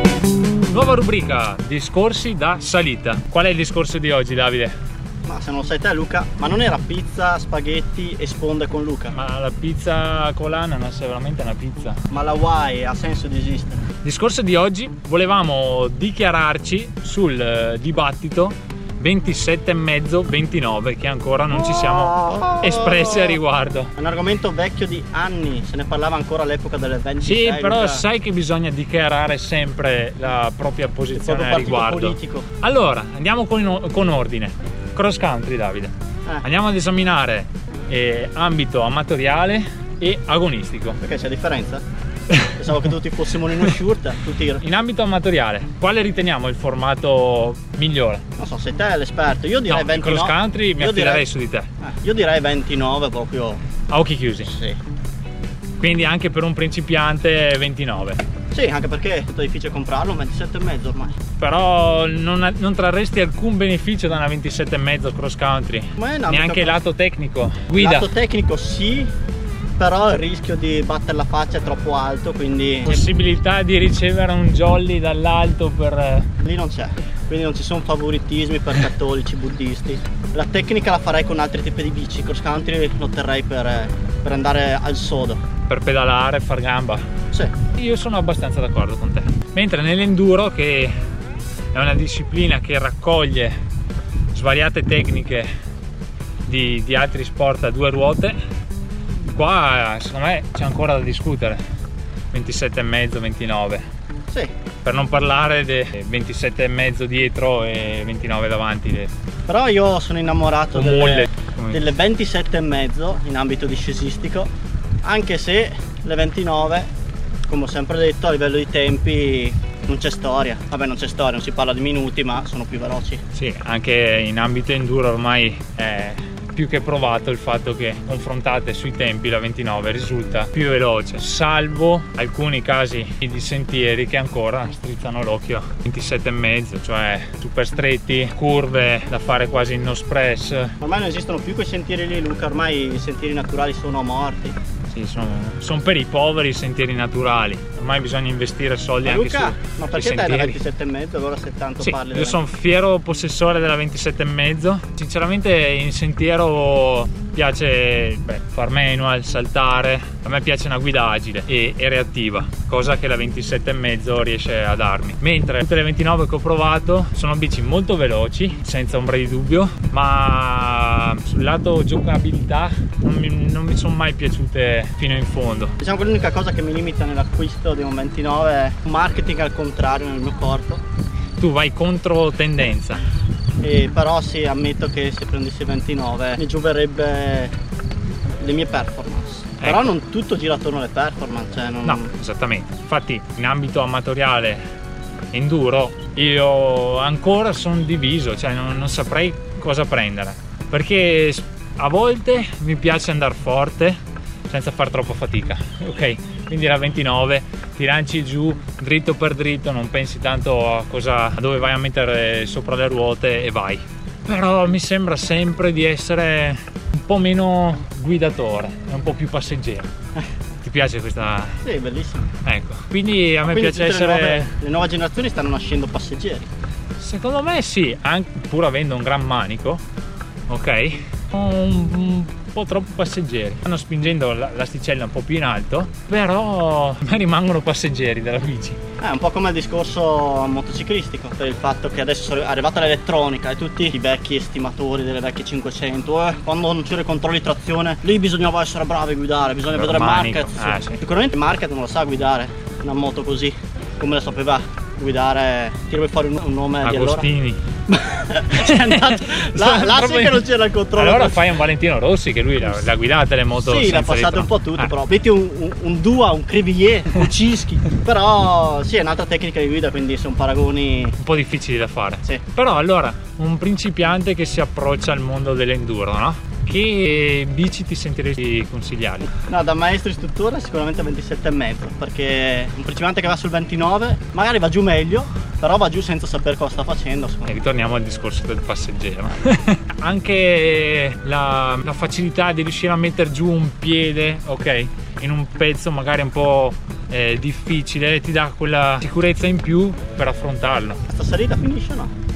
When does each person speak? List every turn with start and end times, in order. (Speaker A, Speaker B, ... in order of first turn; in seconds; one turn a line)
Speaker A: 0.7-4.8
Speaker B: 5.2-9.1
Speaker A: 9.1-12.0
Speaker B: 12.1-13.8
Speaker A: 14.0-23.9
Speaker B: 21.7-23.4
Speaker B: 24.0-28.0
Speaker A: 27.2-41.0
Speaker B: 31.1-32.5
Speaker B: 41.0-41.8
Speaker B: 42.6-44.6
Speaker A: 44.6-48.2
Speaker B: 48.4-51.3
Speaker A: 49.7-51.7
Speaker B: 51.8-53.6
Speaker A: 53.9-54.5
Speaker B: 54.5-54.8
Speaker A: 55.8-58.2
Speaker B: 58.5-61.1
Speaker A: 61.4-68.1
Speaker B: 66.0-66.8
Speaker B: 67.8-69.1
Speaker B: 69.8-73.0
Speaker A: 72.9-76.3
Speaker B: 76.4-85.4
Speaker A: 85.7-87.0
Speaker A: 87.7-90.9
Speaker A: 91.7-93.6
Speaker A: 94.3-95.5
Speaker A: 96.5-98.4
Speaker A: 99.2-101.6
Speaker A: 102.3-103.8
Speaker A: 104.8-109.1
Speaker B: 109.5-114.5
Speaker A: 110.7-111.8
Speaker B: 115.0-116.9
Speaker B: 117.5-123.2
Speaker A: 123.3-140.8
Speaker B: 140.8-144.6
Speaker A: 144.9-150.6
Speaker B: 149.0-152.4
Speaker A: 151.8-175.7
Speaker B: 175.8-180.8
Speaker A: 181.4-183.0
Speaker B: 183.6-187.5
Speaker B: 188.4-192.1
Speaker A: 189.6-189.9
Speaker A: 191.8-194.6
Speaker A: 195.3-219.9
Speaker A: 220.6-221.6
Speaker B: 221.6-222.3
Speaker A: 222.4-224.5
Speaker B: 223.5-226.5
Speaker A: 227.0-229.8
Speaker A: 230.5-238.8
Speaker B: 239.0-257.3
Speaker A: 249.7-251.0
Speaker A: 256.8-257.6
Speaker B: 257.9-261.5
Speaker A: 258.5-264.9
Speaker B: 263.6-271.2
Speaker A: 271.2-279.3
Speaker B: 279.5-287.6
Speaker A: 287.5-301.0
Speaker B: 301.1-302.1